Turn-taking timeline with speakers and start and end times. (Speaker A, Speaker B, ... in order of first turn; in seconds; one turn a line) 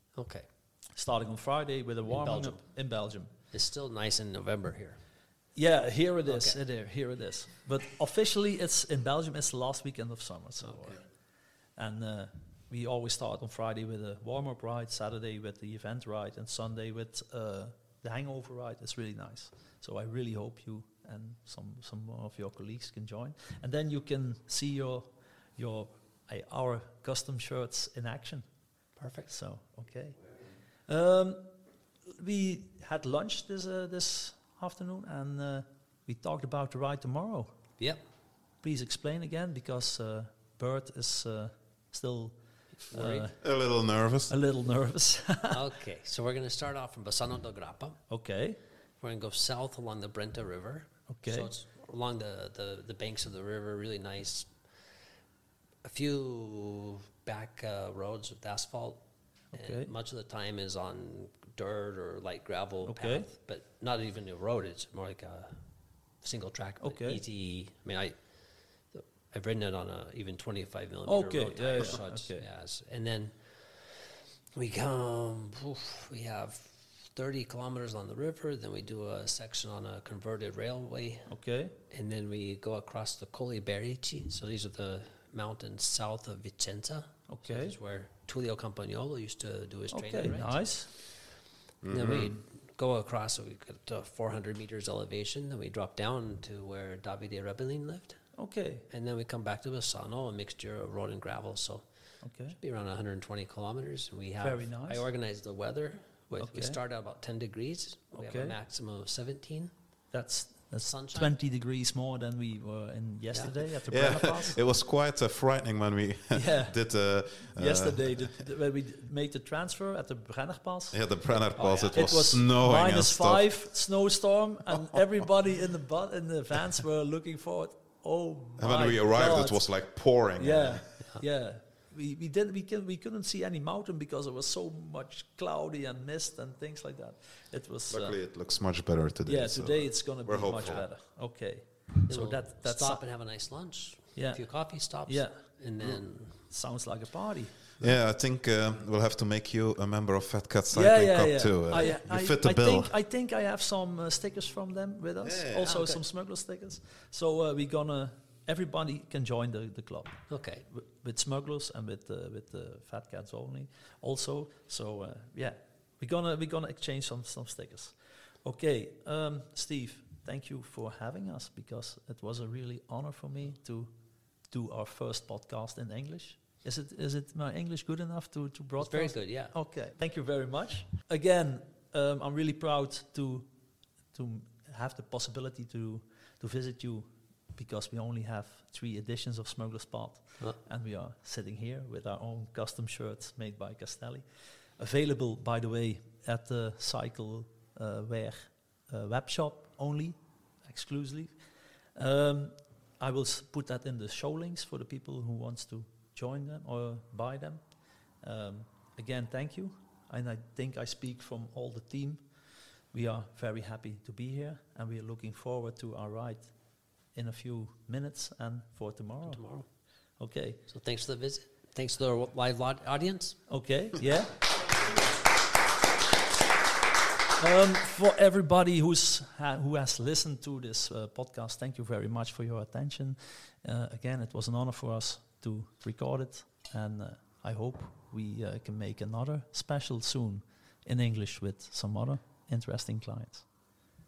Speaker A: 0.1-0.5
Speaker B: 0.9-3.3
Speaker A: 2.1-2.6
Speaker A: 3.5-5.0
Speaker B: 5.5-11.0
Speaker A: 6.3-6.6
Speaker A: 10.6-11.0
Speaker B: 11.8-28.4
Speaker A: 29.0-29.3
Speaker B: 29.3-30.2
Speaker B: 30.9-31.5
Speaker B: 32.2-37.5
Speaker B: 38.6-42.4
Speaker A: 42.9-43.3
Speaker B: 42.9-43.4
Speaker C: 43.4-44.3
Speaker B: 44.3-45.6
Speaker A: 45.5-48.0
Speaker B: 48.1-48.6
Speaker A: 49.0-54.5
Speaker B: 51.1-51.5
Speaker A: 55.8-59.0
Speaker B: 59.5-59.9
Speaker A: 59.5-65.5
Speaker B: 62.9-63.2
Speaker A: 66.2-68.2
Speaker B: 66.8-67.2
Speaker A: 68.9-81.3
Speaker B: 71.1-72.4
Speaker B: 81.3-81.7
Speaker A: 81.9-90.7
Speaker B: 87.3-87.7
Speaker B: 89.9-90.9
Speaker C: 91.8-92.3
Speaker A: 91.9-98.2
Speaker B: 98.3-98.8
Speaker A: 98.9-101.8
Speaker B: 102.2-102.6
Speaker A: 102.6-109.7
Speaker B: 104.4-105.0
Speaker B: 106.4-106.8
Speaker B: 108.1-108.5
Speaker B: 110.1-114.6
Speaker A: 110.8-111.3
Speaker C: 113.8-118.4
Speaker B: 116.3-116.7
Speaker B: 117.5-121.0
Speaker C: 120.9-123.5
Speaker A: 121.6-122.1
Speaker B: 121.9-129.6
Speaker C: 128.6-130.8
Speaker B: 130.4-138.2
Speaker C: 137.9-140.8
Speaker B: 139.2-143.0
Speaker A: 142.1-146.4
Speaker B: 144.2-145.3
Speaker B: 145.8-147.9
Speaker C: 147.8-152.9
Speaker B: 150.7-160.2
Speaker C: 155.2-155.7
Speaker A: 155.7-156.0
Speaker A: 160.3-160.6
Speaker B: 160.7-173.9
Speaker B: 174.5-183.5
Speaker A: 178.8-179.5
Speaker B: 184.1-194.2
Speaker B: 194.8-201.3
Speaker B: 201.9-207.6
Speaker B: 208.2-212.2
Speaker B: 212.9-216.5
Speaker B: 217.1-219.4
Speaker A: 219.2-219.7
Speaker B: 220.2-220.6
Speaker A: 220.7-223.4
Speaker B: 223.5-224.4
Speaker B: 227.4-243.4